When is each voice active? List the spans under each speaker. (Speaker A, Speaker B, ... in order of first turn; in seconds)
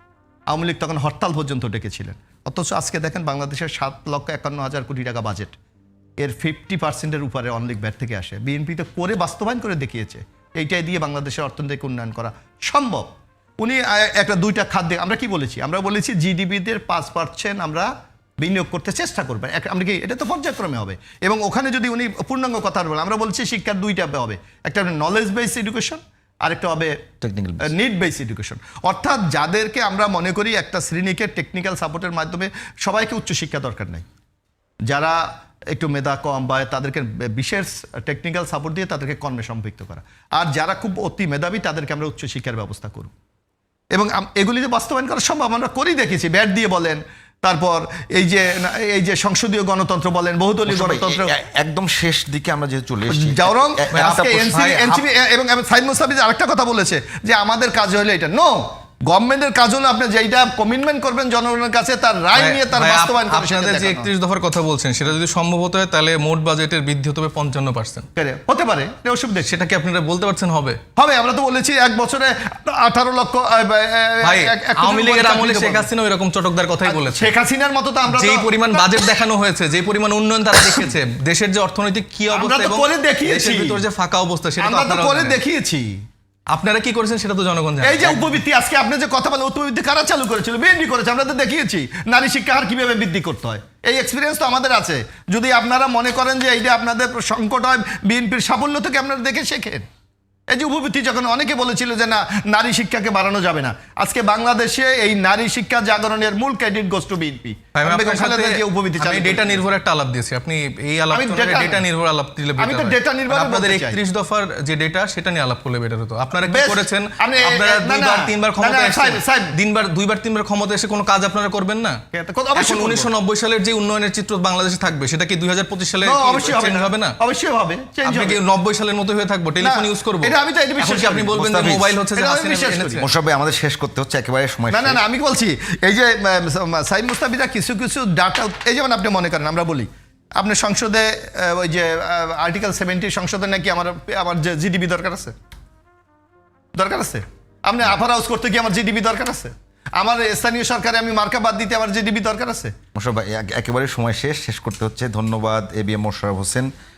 Speaker A: 0.5-5.5, 6.2-27.0, 27.6-34.0, 34.9-35.2, 35.7-43.1, 43.9-51.3, 53.1-64.1, 68.2-69.5, 71.0-75.9, 76.8-79.0, 82.3-83.8, 84.6-86.0, 87.8-99.8, 100.5-109.6, 111.1-111.8, 112.6-114.0, 116.5-119.5, 122.1-123.1, 126.0-128.4, 129.6-131.5, 132.1-133.0, 134.7-145.3, 146.8-152.7
Speaker B: 27.2-27.7, 50.7-54.4, 131.4-131.9, 133.0-135.0, 152.9-156.7
Speaker C: 53.9-55.0, 62.4-68.1, 69.4-70.8, 74.2-77.3, 78.1-85.4, 86.5-88.4, 107.7-122.0, 122.5-127.2, 128.0-133.0